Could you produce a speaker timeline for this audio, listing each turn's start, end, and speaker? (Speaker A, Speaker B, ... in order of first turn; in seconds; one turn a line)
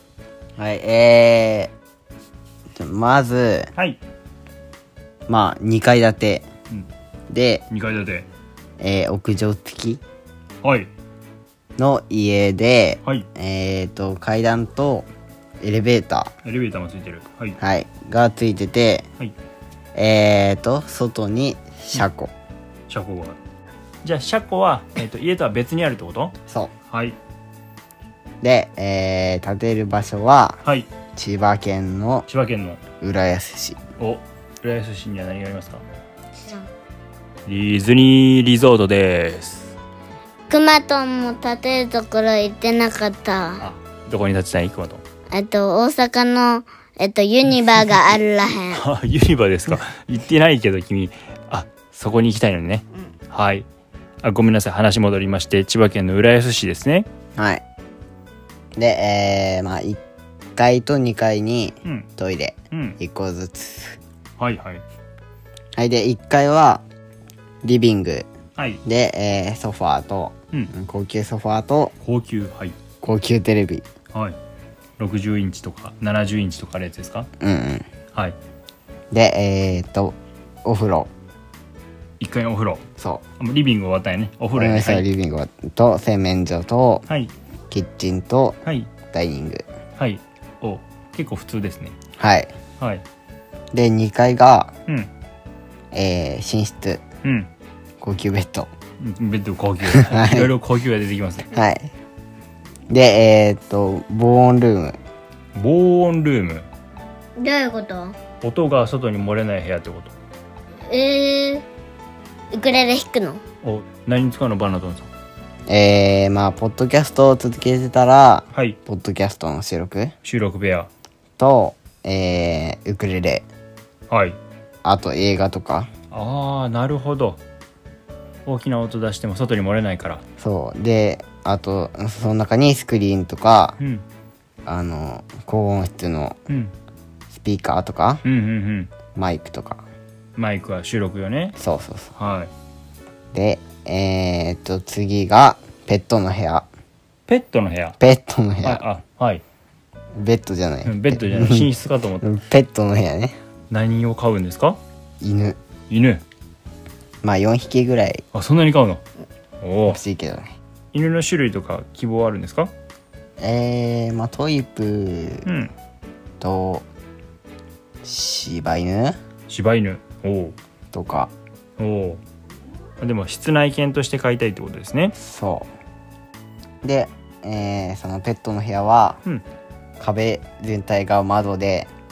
Speaker A: 0.6-1.7
Speaker A: 2.7-3.7
Speaker A: 5.3-6.5
Speaker A: 7.3-7.6
Speaker B: 7.7-8.3
Speaker A: 8.8-10.0
Speaker B: 10.6-10.9
Speaker A: 11.8-15.1
Speaker A: 15.6-16.3
Speaker B: 16.4-17.6
Speaker A: 17.6-19.1
Speaker A: 19.9-22.3
Speaker B: 22.9-23.4
Speaker B: 24.0-26.3
Speaker B: 26.9-27.1
Speaker A: 28.4-30.6
Speaker B: 30.6-30.9
Speaker A: 31.1-32.2
Speaker B: 32.3-32.8
Speaker A: 33.0-33.8
Speaker B: 34.0-35.8
Speaker C: 36.4-36.7
Speaker B: 37.5-39.7
Speaker C: 40.5-43.7
Speaker B: 43.6-45.0
Speaker C: 45.3-48.8
Speaker B: 48.7-53.6
Speaker B: 54.2-57.1
Speaker A: 57.4-57.6
Speaker A: 58.8-60.0
Speaker A: 60.5-64.0
Speaker B: 62.7-63.0
Speaker B: 64.4-64.8
Speaker A: 65.8-66.8
Speaker A: 67.6-68.3
Speaker B: 68.6-68.8
Speaker A: 68.8-71.9
Speaker B: 72.0-72.7
Speaker A: 73.0-73.8
Speaker B: 75.0-77.3
Speaker A: 77.4-77.8
Speaker A: 79.1-81.1
Speaker B: 82.2-82.8
Speaker A: 83.0-83.2
Speaker B: 83.4-85.0
Speaker A: 84.5-87.0
Speaker A: 87.7-88.6
Speaker A: 89.1-89.6
Speaker B: 90.0-91.9
Speaker A: 92.2-92.5
Speaker A: 93.7-94.7
Speaker A: 95.9-97.0
Speaker B: 97.2-97.5
Speaker A: 98.0-98.7
Speaker B: 99.0-101.5
Speaker A: 99.8-100.5
Speaker A: 101.5-101.9
Speaker A: 102.9-105.0
Speaker B: 105.5-106.7
Speaker C: 107.4-108.2
Speaker B: 108.4-110.1
Speaker C: 110.9-111.6
Speaker C: 112.5-113.4
Speaker B: 113.6-115.1
Speaker A: 115.7-120.1
Speaker B: 120.2-120.9
Speaker A: 121.4-123.4
Speaker B: 124.1-124.4
Speaker A: 124.8-125.9
Speaker B: 126.1-127.4
Speaker B: 128.4-130.2
Speaker A: 130.4-133.8
Speaker B: 133.8-134.0
Speaker A: 134.7-136.4
Speaker B: 136.5-136.7
Speaker A: 137.3-138.2
Speaker B: 138.2-138.9
Speaker A: 139.1-139.8
Speaker B: 140.4-141.6
Speaker A: 141.6-142.1
Speaker B: 142.2-142.5
Speaker A: 143.3-146.7
Speaker B: 147.3-148.0
Speaker A: 148.0-148.8
Speaker B: 148.6-149.4
Speaker A: 150.1-151.7
Speaker B: 150.8-152.3
Speaker A: 152.2-153.3
Speaker B: 153.7-154.8
Speaker A: 155.2-155.6
Speaker B: 155.9-156.2
Speaker A: 157.2-158.2
Speaker B: 158.3-159.0
Speaker B: 159.6-160.0
Speaker A: 159.9-160.5
Speaker B: 160.9-162.7
Speaker A: 163.4-165.4
Speaker B: 165.4-165.7
Speaker A: 166.4-166.8
Speaker A: 168.0-169.2
Speaker B: 169.5-170.6
Speaker A: 170.9-171.3
Speaker B: 171.8-172.2
Speaker B: 173.0-175.1
Speaker A: 175.2-175.7
Speaker A: 176.8-179.2
Speaker A: 180.0-181.9